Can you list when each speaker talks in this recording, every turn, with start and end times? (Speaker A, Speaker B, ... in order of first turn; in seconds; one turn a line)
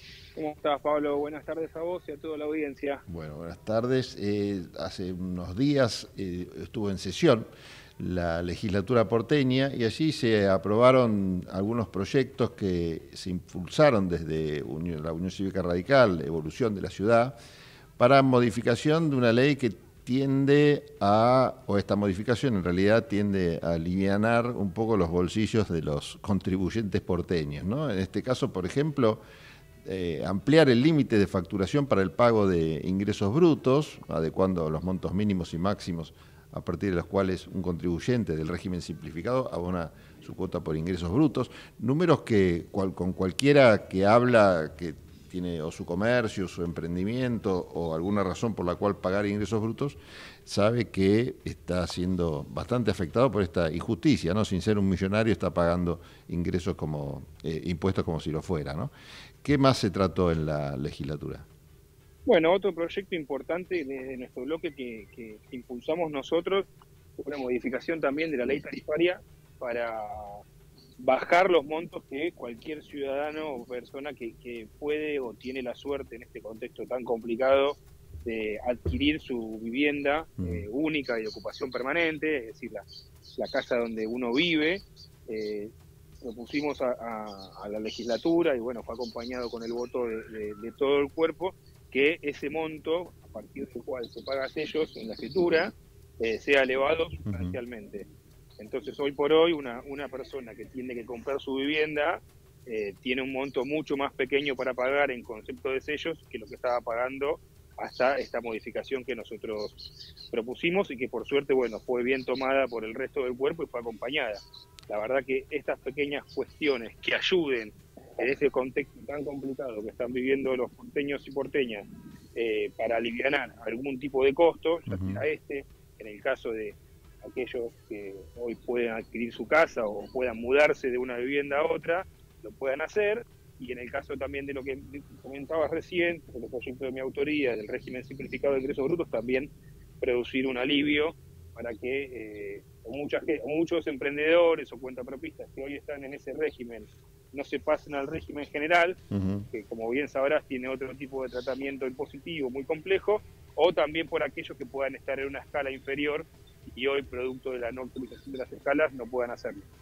Speaker A: 0.4-3.0
Speaker B: 3.1-7.5
Speaker B: 8.0-17.4
Speaker B: 18.0-29.2
Speaker B: 29.8-61.5
Speaker A: 62.3-70.4
Speaker A: 71.0-98.1
Speaker B: 80.4-80.7
Speaker B: 97.3-97.6
Speaker A: 98.6-149.0
Speaker B: 124.9-125.2
Speaker B: 149.1-149.5
Speaker A: 149.5-159.6